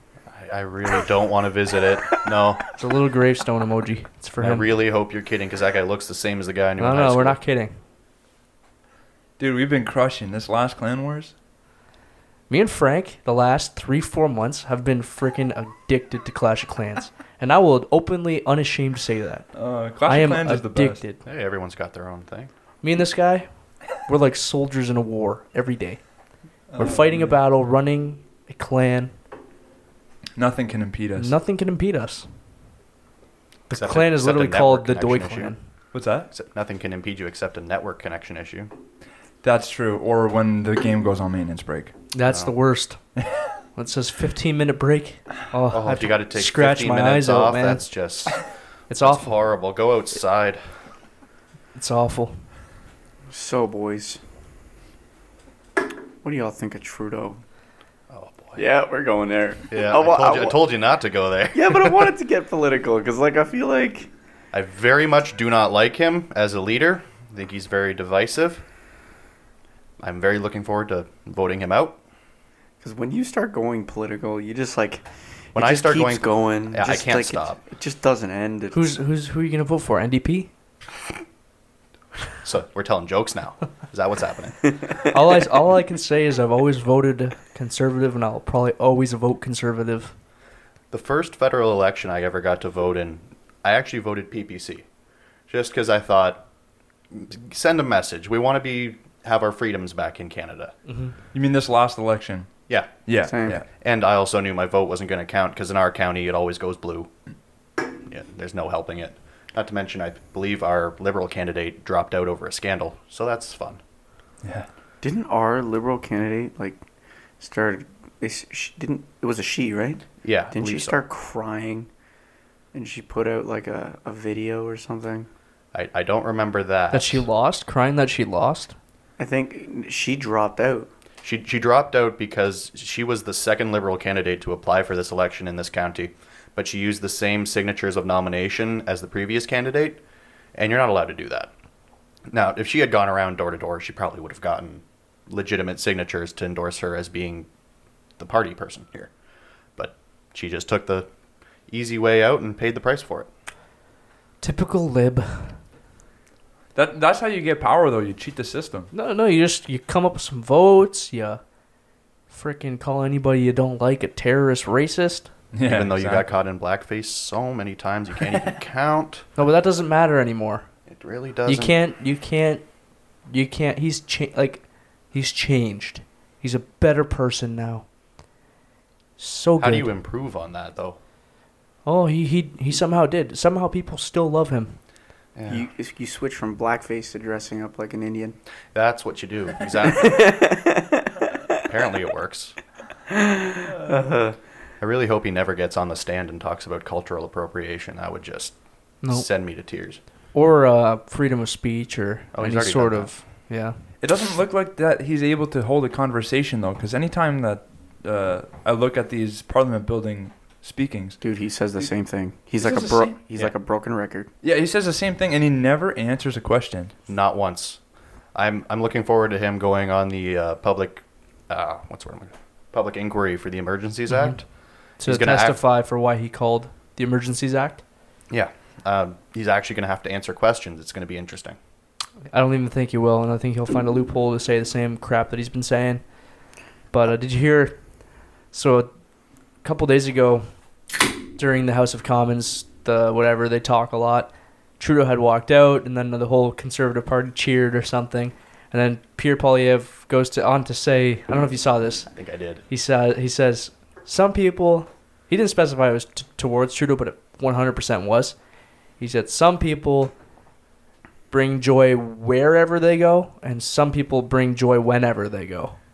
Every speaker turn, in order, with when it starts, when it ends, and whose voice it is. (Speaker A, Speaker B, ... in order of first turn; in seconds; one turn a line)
Speaker A: 0.3-2.6
Speaker B: 2.8-4.7
Speaker A: 4.4-7.4
Speaker B: 6.8-7.8
Speaker C: 9.4-11.3
Speaker B: 12.5-19.5
Speaker C: 19.5-21.0
Speaker B: 20.0-21.2
Speaker A: 21.2-22.5
Speaker B: 22.8-23.5
Speaker B: 24.0-26.0
Speaker C: 26.7-27.3
Speaker B: 26.8-29.1
Speaker C: 30.4-31.4
Speaker B: 31.2-32.3
Speaker B: 33.7-35.6
Speaker A: 33.7-35.5
Speaker C: 35.9-36.3
Speaker A: 36.3-38.7
Speaker C: 39.4-41.9
Speaker B: 42.1-43.0
Speaker A: 42.3-42.5
Speaker B: 43.8-47.9
Speaker A: 45.7-48.5
Speaker B: 48.9-49.4
Speaker A: 49.0-50.8
Speaker B: 51.7-52.4
Speaker D: 53.3-54.2
Speaker D: 56.2-57.4
Speaker A: 58.1-58.6
Speaker D: 58.6-60.6
Speaker A: 59.7-62.1
Speaker D: 61.5-64.1
Speaker A: 64.5-68.6
Speaker A: 70.0-72.0
Speaker D: 72.8-78.8
Speaker A: 75.5-77.6
Speaker B: 78.7-80.5
Speaker A: 82.4-84.6
Speaker B: 85.1-90.1
Speaker A: 90.9-94.8
Speaker A: 95.5-96.4
Speaker A: 97.1-100.7
Speaker B: 100.9-101.1
Speaker C: 101.3-102.5
Speaker A: 102.7-107.1
Speaker C: 103.0-103.6
Speaker D: 103.2-103.6
Speaker A: 107.9-113.8
Speaker C: 114.4-114.7
Speaker D: 115.0-116.8
Speaker D: 117.4-121.9
Speaker A: 120.2-121.0
Speaker D: 122.7-125.3
Speaker A: 125.7-127.2
Speaker B: 126.9-128.7
Speaker D: 129.2-130.9
Speaker A: 131.2-140.0
Speaker A: 140.5-141.5
Speaker A: 142.3-147.5
Speaker A: 148.2-149.1
Speaker A: 149.8-151.1
Speaker A: 151.7-153.3
Speaker B: 154.4-155.6
Speaker C: 156.7-158.9
Speaker B: 158.9-161.4
Speaker B: 162.3-165.3
Speaker C: 165.5-166.3
Speaker A: 165.6-169.2
Speaker B: 169.3-170.6
Speaker A: 170.9-171.8
Speaker B: 171.4-172.6
Speaker B: 173.3-177.8
Speaker B: 179.2-179.9
Speaker A: 179.6-181.0
Speaker B: 181.8-184.8
Speaker A: 185.3-185.7
Speaker D: 185.5-188.3
Speaker A: 188.7-190.3
Speaker D: 189.8-191.2
Speaker A: 191.6-192.6
Speaker D: 193.1-194.4
Speaker A: 194.8-198.6
Speaker B: 199.0-199.3
Speaker A: 199.1-200.0
Speaker B: 200.3-203.8
Speaker A: 202.3-203.1
Speaker C: 204.0-211.2
Speaker D: 211.2-214.3
Speaker C: 212.6-213.5
Speaker C: 214.4-216.9
Speaker A: 217.1-217.8
Speaker A: 218.3-224.5
Speaker B: 224.1-224.4
Speaker B: 225.0-227.8
Speaker A: 225.0-225.6
Speaker A: 228.3-231.6
Speaker B: 232.3-236.0
Speaker B: 236.9-237.8
Speaker B: 238.5-238.9
Speaker B: 239.6-240.5
Speaker B: 241.3-252.1
Speaker A: 252.1-252.6
Speaker B: 252.7-258.4
Speaker B: 259.0-260.1
Speaker B: 261.3-265.8